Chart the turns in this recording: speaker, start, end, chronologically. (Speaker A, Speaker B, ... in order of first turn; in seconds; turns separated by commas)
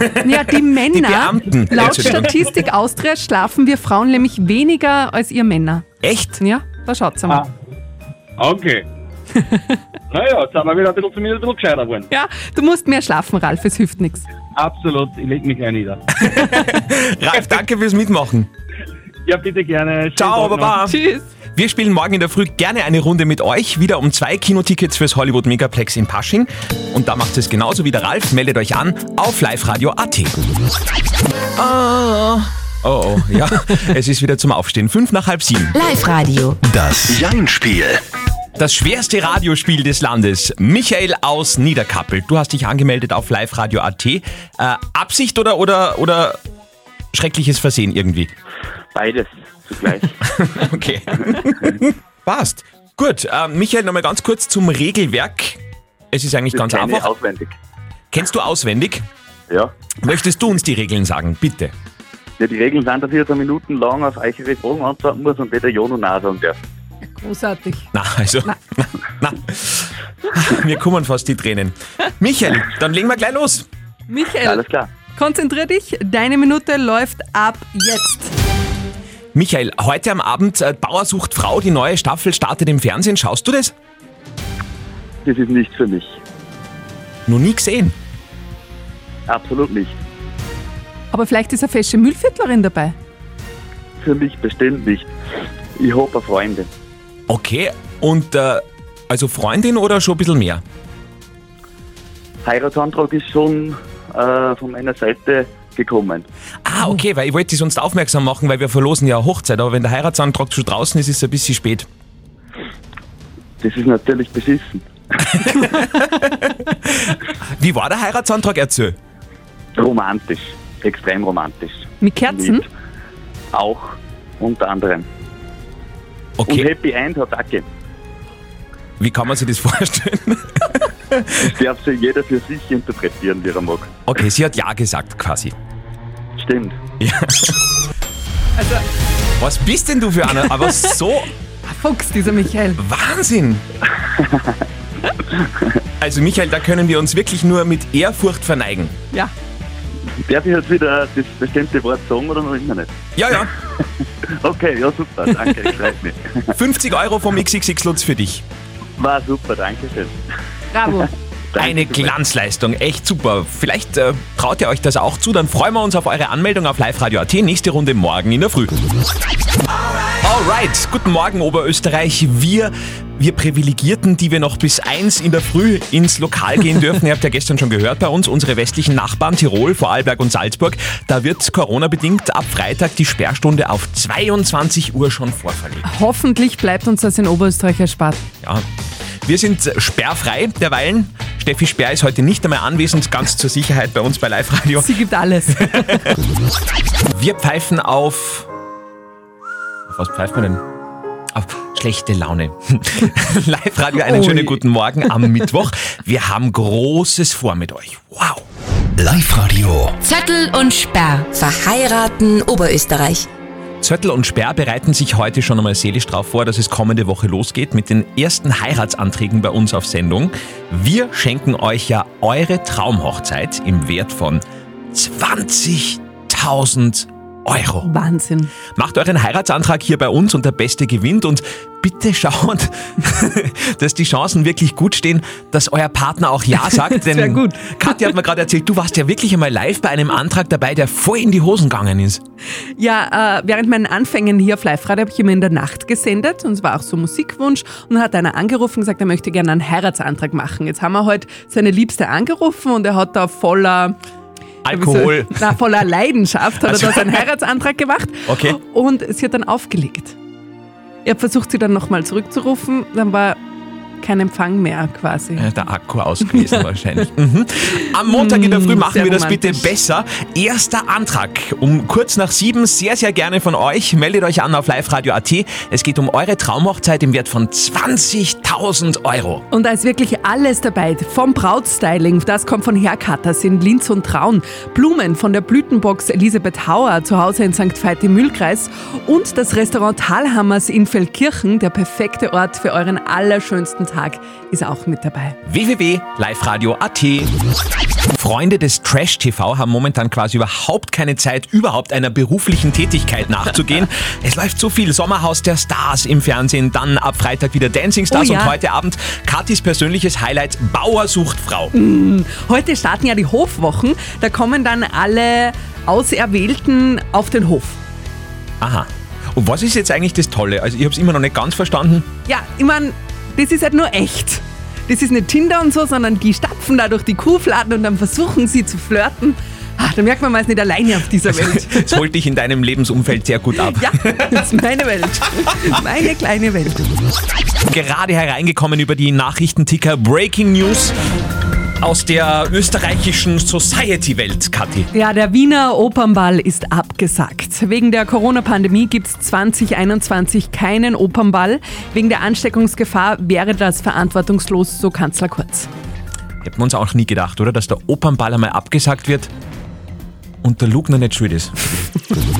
Speaker A: 0.2-5.8, Speaker B: 0.9-2.3, Speaker B: 6.0-6.4, Speaker A: 6.4-7.4, Speaker C: 8.4-8.8, Speaker C: 10.1-12.1, Speaker A: 12.1-14.2, Speaker C: 14.6-16.0, Speaker B: 16.2-18.5, Speaker C: 19.2-20.8, Speaker B: 20.1-20.9, Speaker A: 20.9-21.3, Speaker B: 21.5-30.3, Speaker B: 31.6-35.8, Speaker D: 35.7-36.6, Speaker E: 36.6-38.0, Speaker B: 38.6-46.4, Speaker B: 47.1-48.3, Speaker F: 48.9-50.1, Speaker B: 50.3-55.6, Speaker B: 56.1-57.1, Speaker F: 56.5-57.5, Speaker B: 58.1-59.0, Speaker B: 60.0-61.7, Speaker F: 62.4-66.6, Speaker A: 67.0-67.9, Speaker B: 67.9-73.7, Speaker A: 74.1-74.6, Speaker F: 74.4-74.9, Speaker A: 75.1-78.3, Speaker B: 79.3-83.7, Speaker F: 85.2-86.2, Speaker B: 87.3-87.9, Speaker F: 89.3-90.0, Speaker A: 91.1-92.9, Speaker F: 94.0-95.1, Speaker F: 95.8-96.7, Speaker B: 97.3-100.6, Speaker F: 102.4-106.2, Speaker B: 106.6-111.9, Speaker F: 113.6-114.9, Speaker B: 115.5-119.0, Speaker F: 119.8-122.6, Speaker A: 122.0-122.6, Speaker F: 123.5-125.0, Speaker B: 126.4-126.7, Speaker F: 126.5-127.7, Speaker B: 129.0-131.4, Speaker F: 131.4-133.9, Speaker B: 134.1-135.5, Speaker F: 136.4-136.8, Speaker B: 137.0-137.6, Speaker A: 138.6-138.8, Speaker B: 139.4-141.3, Speaker A: 140.4-140.9, Speaker A: 141.6-142.8, Speaker B: 142.8-143.6, Speaker B: 146.0-148.9, Speaker F: 150.2-153.4, Speaker B: 153.2-153.5, Speaker F: 154.4-156.2, Speaker B: 156.5-158.4, Speaker F: 159.0-160.2, Speaker A: 160.7-161.1, Speaker F: 161.5-162.2, Speaker B: 161.6-168.7, Speaker B: 170.2-185.8, Speaker A: 185.8-188.2, Speaker B: 189.2-194.9, Speaker A: 194.8-196.0, Speaker B: 195.8-196.1, Speaker B: 197.1-198.5, Speaker B: 199.9-200.6, Speaker B: 201.3-208.4, Speaker A: 204.1-204.6, Speaker E: 209.0-209.9, Speaker D: 210.0-213.3, Speaker B: 213.8-227.9, Speaker A: 227.8-228.5, Speaker B: 228.8-242.2, Speaker A: 236.6-237.9, Speaker A: 242.8-254.0, Speaker B: 254.6-255.4, Speaker A: 254.7-260.1, Speaker B: 256.6-257.2, Speaker B: 258.3-258.6, Speaker A: 261.0-263.4, Speaker A: 264.0-265.5, Speaker B: 265.4-279.4, Speaker A: 266.3-266.6, Speaker A: 268.1-269.7, Speaker A: 279.5-295.4, Speaker B: 295.4-297.3, Speaker B: 298.1-311.7, Speaker A: 308.1-308.5, Speaker A: 311.7-317.8, Speaker B: 318.6-322.1, Speaker A: 322.3-332.0, Speaker B: 331.3-334.2, Speaker A: 333.6-336.8, Speaker B: 337.7-340.9, Speaker B: 341.8-344.9, Speaker A: 344.9-355.7, Speaker B: 356.4-359.3, Speaker B: 360.4-361.9